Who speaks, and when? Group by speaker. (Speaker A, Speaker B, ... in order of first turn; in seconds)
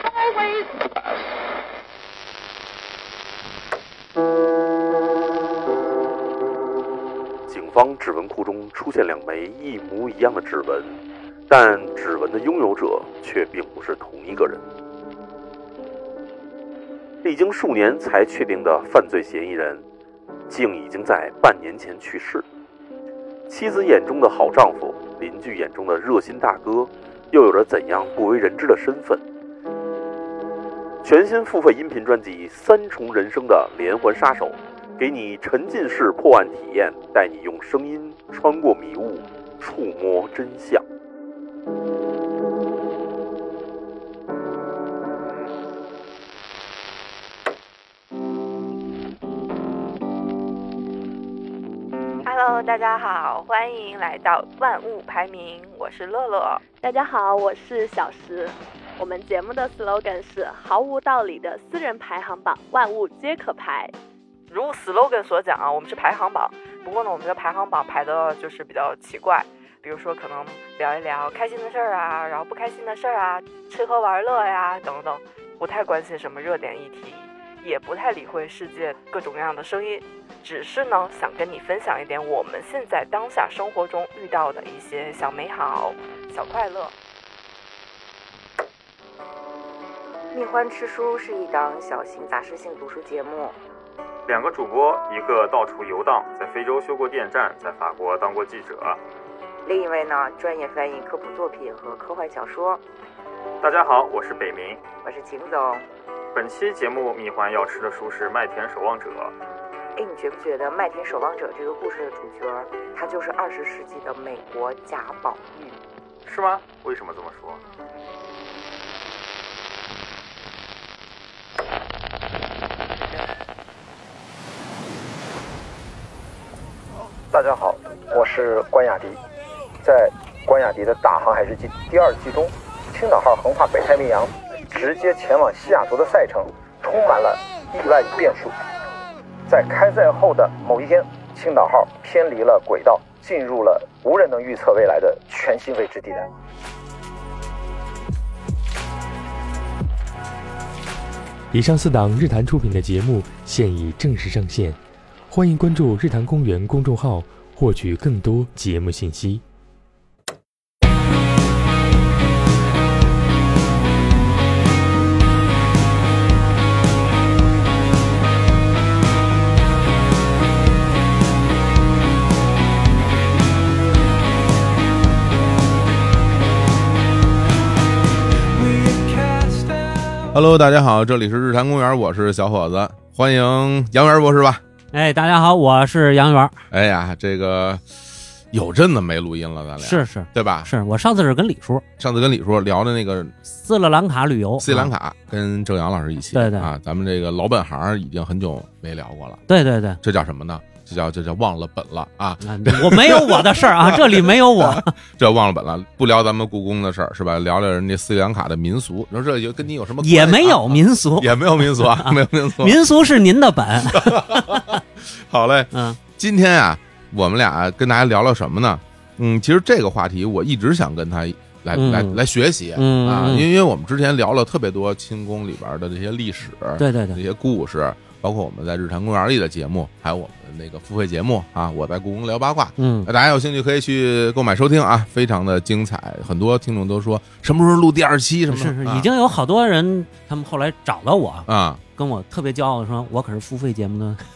Speaker A: 7.5-14.6, 17.2-19.9, 20.5-22.4, 23.5-29.2, 31.0-40.8
Speaker B: 52.2-56.6, 64.5-86.9
Speaker C: 56.8-63.9
Speaker D: 90.3-93.6, 99.7-102.8, 105.0-105.9, 110.0-115.8
Speaker E: 94.3-99.0, 103.6-104.9, 106.3-109.3, 116.3-117.6
Speaker F: 127.3-129.2, 129.8-138.6, 139.5-146.3
Speaker G: 151.5-159.4
Speaker H: 180.2-184.6, 186.7-187.8, 188.5-190.7, 192.0-193.3, 194.6-199.4, 200.0-212.8, 213.9-239.1, 241.5-241.8
Speaker I: 184.9-186.6, 189.8-191.8, 193.5-194.9, 196.3-196.7, 199.5-200.0, 202.4-204.9, 210.0-214.8, 215.7-216.0, 221.7-222.2, 222.8-223.5, 226.8-227.2, 232.8-233.1, 238.5-244.2